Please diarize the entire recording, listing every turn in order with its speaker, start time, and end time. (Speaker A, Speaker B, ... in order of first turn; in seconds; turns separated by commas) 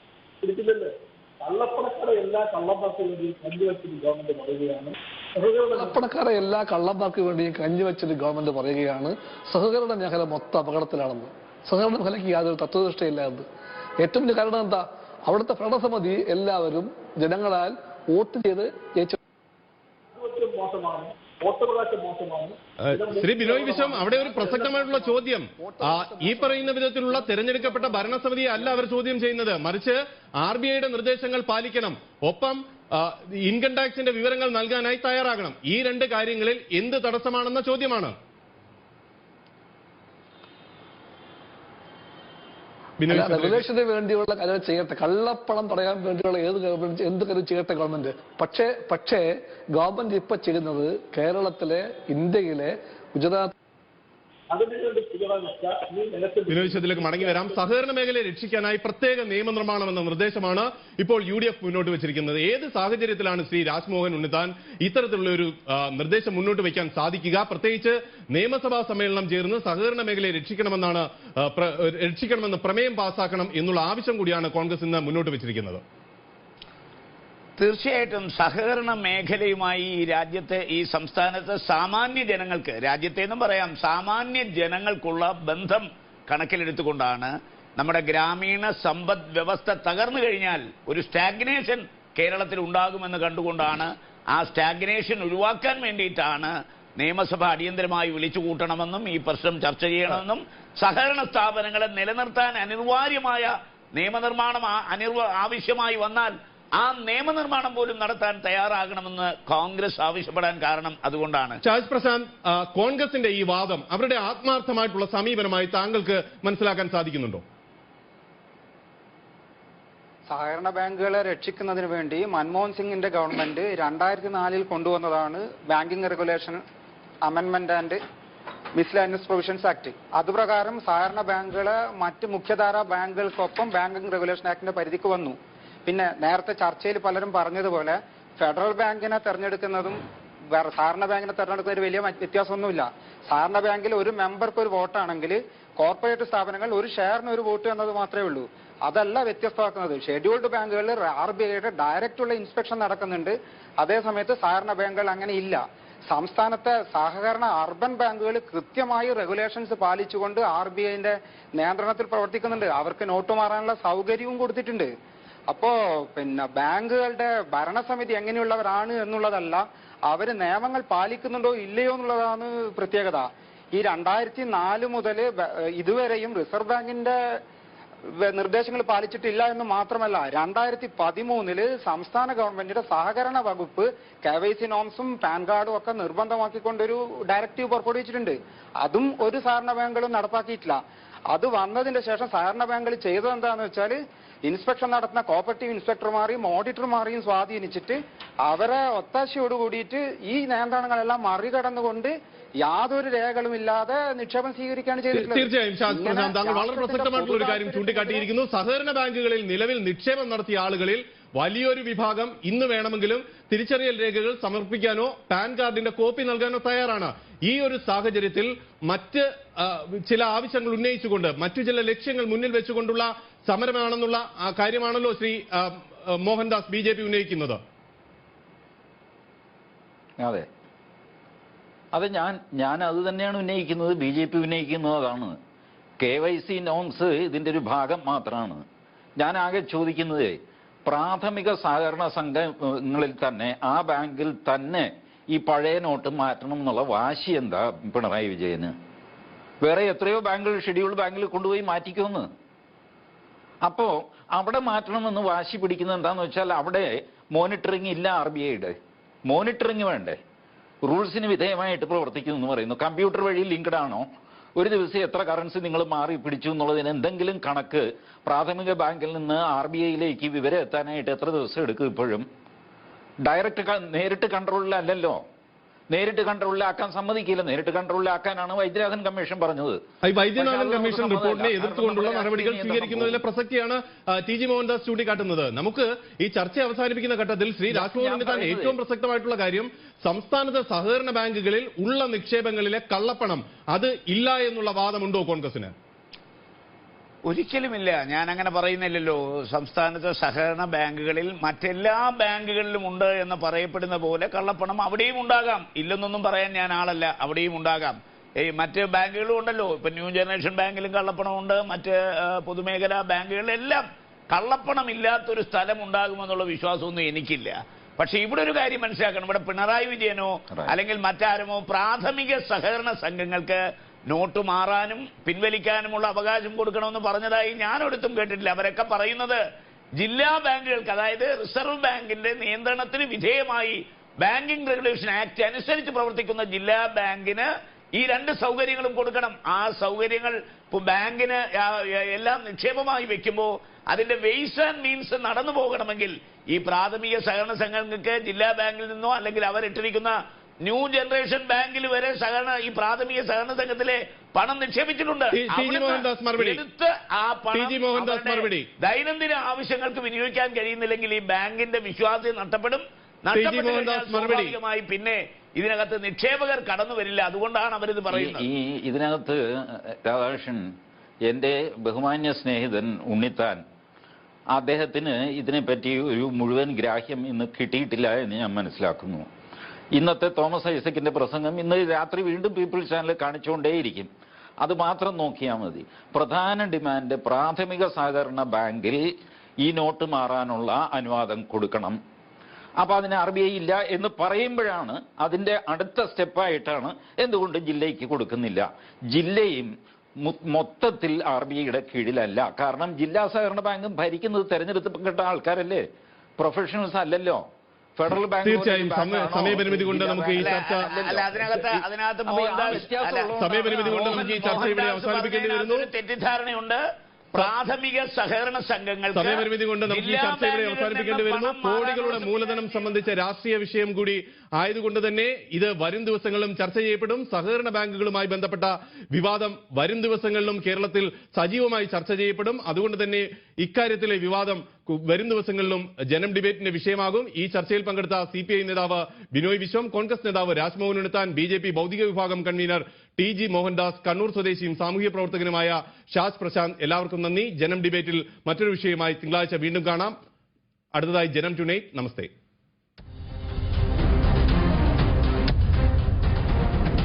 Speaker A: 0.4-6.0, Speaker B: 5.8-13.5, Speaker B: 14.0-19.2, Speaker A: 20.1-24.8, Speaker C: 22.9-38.1, Speaker B: 23.9-28.8, Speaker C: 43.0-43.7, Speaker B: 43.1-53.5, Speaker A: 54.5-57.6, Speaker C: 56.5-75.8, Speaker D: 77.6-111.6, Speaker C: 111.6-117.4, Speaker E: 120.3-126.6, Speaker E: 127.2-128.0, Speaker E: 128.8-164.9, Speaker E: 165.5-177.4, Speaker E: 178.1-208.3, Speaker C: 205.1-227.6, Speaker F: 230.2-230.5, Speaker F: 231.9-235.4, Speaker F: 236.0-238.6, Speaker F: 239.2-248.8, Speaker F: 249.6-252.3, Speaker F: 253.6-260.2, Speaker F: 260.8-272.3, Speaker F: 273.2-275.2, Speaker F: 275.9-279.8, Speaker C: 280.0-295.7, Speaker F: 280.4-283.2, Speaker F: 287.7-288.8, Speaker D: 297.3-329.4, Speaker F: 320.5-320.8, Speaker D: 330.0-350.1, Speaker D: 350.6-368.5, Speaker C: 355.3-356.6, Speaker C: 357.5-358.7, Speaker C: 363.3-364.6, Speaker F: 368.1-370.7, Speaker F: 371.3-373.6, Speaker F: 374.5-379.3, Speaker F: 379.9-384.1, Speaker F: 384.6-389.0, Speaker F: 389.6-392.0, Speaker F: 392.8-405.9, Speaker F: 406.4-407.4, Speaker F: 408.0-414.6, Speaker C: 408.4-410.9, Speaker D: 410.4-416.8, Speaker C: 413.4-415.9, Speaker D: 417.4-422.9, Speaker C: 419.1-450.1, Speaker C: 450.9-452.3